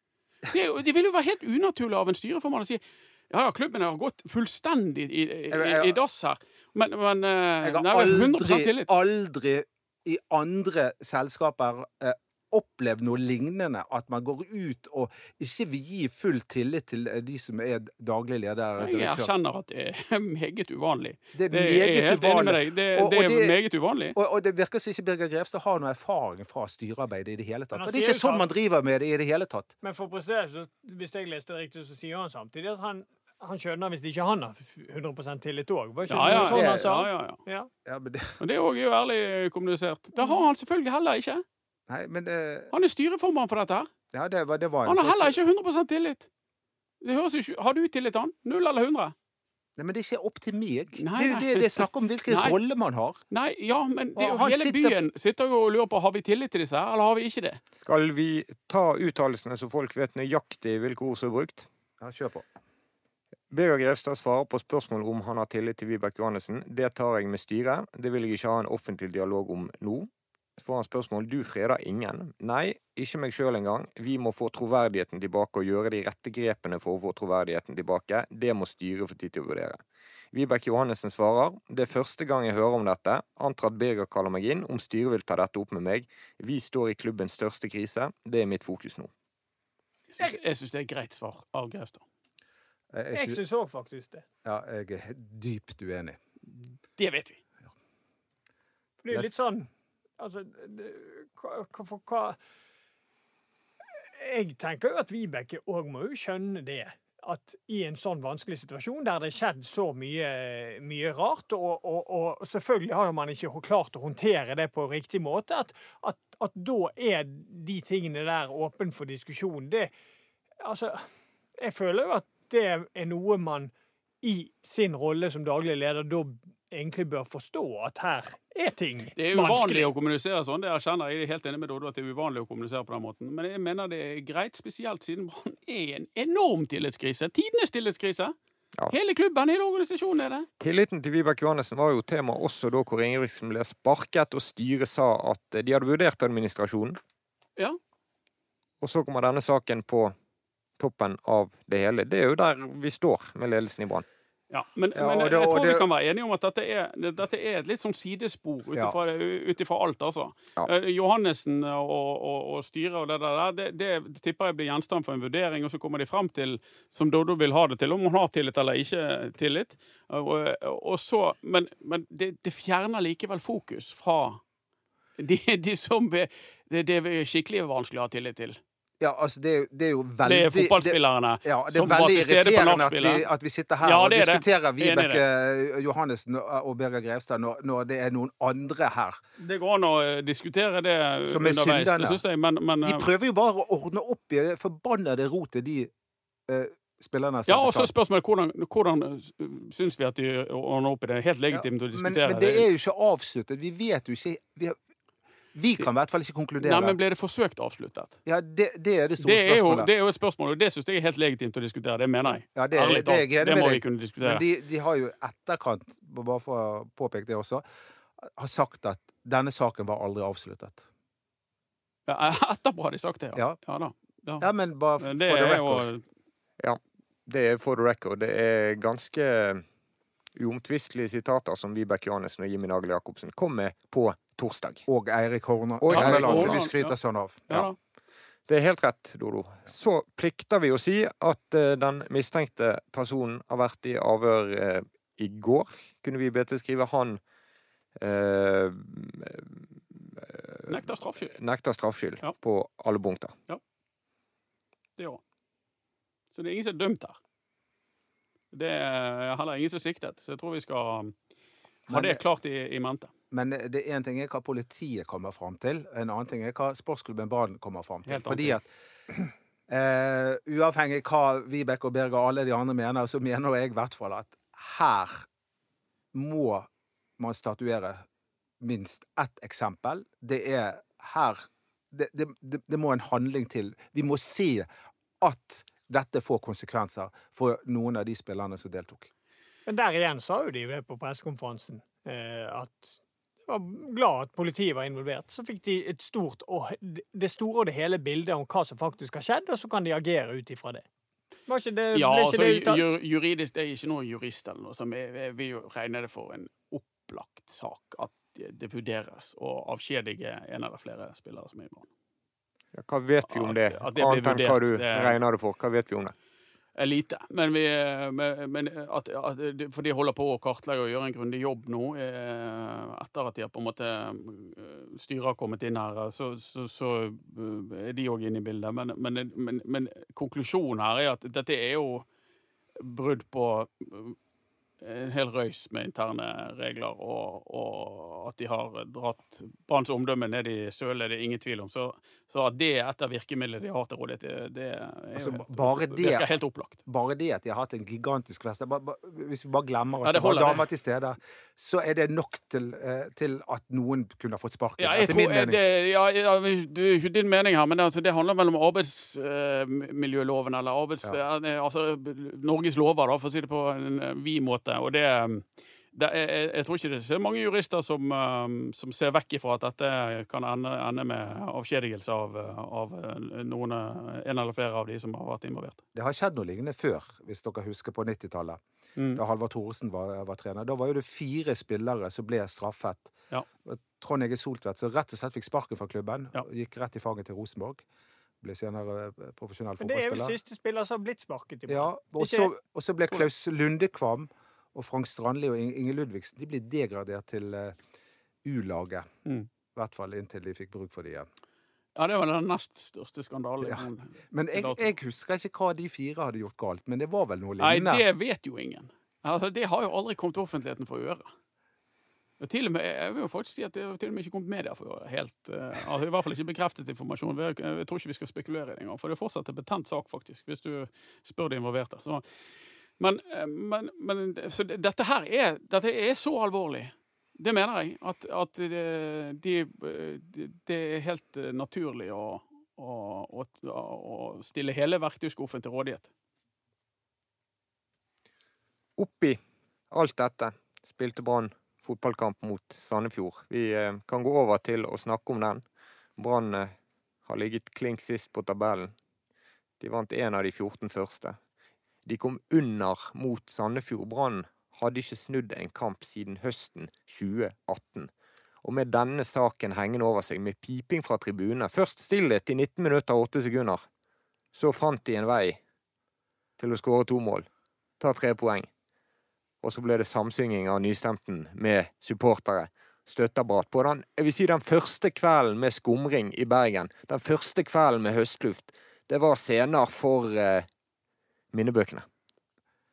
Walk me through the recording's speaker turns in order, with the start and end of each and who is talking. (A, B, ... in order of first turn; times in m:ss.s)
0:00.4-0:08.9 A
0:05.5-0:06.0 B
0:07.6-0:19.3 B
0:18.8-0:24.2 A
0:21.4-0:23.6 B
0:24.2-0:29.7 B
0:27.7-0:28.5 C
0:29.8-0:37.7 C
0:36.1-0:37.4 A
0:36.3-0:36.9 B
0:37.8-0:38.4 B
0:38.4-0:41.4 A
0:40.2-0:40.4 C
0:41.9-0:42.7 B
0:42.7-0:43.9 A
0:44.1-0:45.4 B
0:44.8-0:46.3 A
0:47.0-0:49.2 A
0:49.8-0:53.2 B
0:51.0-0:52.6 A
0:53.3-0:57.6 A
0:54.2-0:55.0 B
0:57.8-1:01.7 D
1:02.0-1:02.5 B
1:03.5-1:19.8 D
1:20.3-1:29.1 D
1:30.2-1:32.0 A
1:32.9-1:33.4 B
1:33.1-1:34.2 C
1:34.4-1:36.2 B
1:37.0-1:37.4 A
1:39.0-1:42.4 C
1:44.2-1:59.9 C
2:00.6-2:01.1 C
2:01.6-2:09.9 C
2:09.2-2:18.3 A
2:18.9-2:20.5 A
2:20.6-2:27.0 D
2:28.8-2:30.1 D
2:30.8-2:34.0 D
2:34.5-2:54.4 A
2:35.0-2:35.9 B
2:55.2-2:58.6 A
2:59.0-3:09.2 B
3:00.2-3:03.3 A
3:03.8-3:05.2 A
3:09.4-3:13.1 A
3:11.3-3:12.2 B
3:12.8-3:15.9 B
3:16.5-3:17.9 B
3:17.5-3:22.7 A
3:21.5-3:24.8 B
3:25.5-3:27.0 B
3:26.6-3:28.2 A
3:28.3-3:29.9 B
3:29.2-3:34.4 A
3:32.6-3:37.6 B
3:38.4-3:40.9 B
3:42.1-3:44.5 A
3:44.4-3:45.9 B
3:45.0-3:46.0 A
3:46.6-3:49.6 D
3:50.4-3:54.8 D
3:54.9-3:57.7 B
3:55.8-3:56.6 D
3:55.9-3:57.0 A
3:57.5-3:57.8 A
3:58.5-4:07.2 D
4:08.0-4:10.8 D
4:10.7-4:11.4 A
4:11.4-4:13.3 D
4:16.3-4:17.2 A
4:18.5-4:21.1 A
4:21.9-4:23.1 A
4:21.9-4:22.2 B
4:23.3-4:28.7 B
4:28.1-4:28.6 A
4:29.7-4:35.3 B
4:36.1-4:38.1 B
4:38.6-4:44.7 B
4:45.2-4:49.1 B
4:49.7-5:00.8 C
5:01.5-5:02.9 C
5:01.9-5:11.9 A
5:12.8-5:16.1 D
5:13.3-5:15.2 A
5:16.8-5:32.1 A
5:32.8-5:34.2 A
5:34.8-5:46.8 A
5:45.2-5:46.3 B
5:46.9-5:55.6 B
5:50.0-5:50.6 A
5:54.8-6:15.8 A
6:16.0-6:18.6 B
6:19.2-6:23.1 B
6:23.6-6:27.8 B
6:28.4-6:30.4 B
6:29.8-6:32.5 C
6:31.7-6:37.8 B
6:38.4-6:39.1 B
6:39.8-6:41.3 B
6:42.0-6:44.9 A
6:43.6-6:48.0 B
6:47.6-6:51.3 A
6:52.4-7:02.2 A
7:03.0-7:16.1 A
7:19.0-7:19.4 D
7:19.9-7:25.6 D
7:26.2-7:26.7 D
7:27.3-7:28.9 D
7:29.8-7:31.4 D
7:32.0-7:38.1 D
7:38.6-7:43.9 D
7:44.5-7:45.6 D
7:46.6-7:47.5 D
7:48.0-7:48.7 D
7:49.6-8:00.7 D
8:01.5-8:02.1 D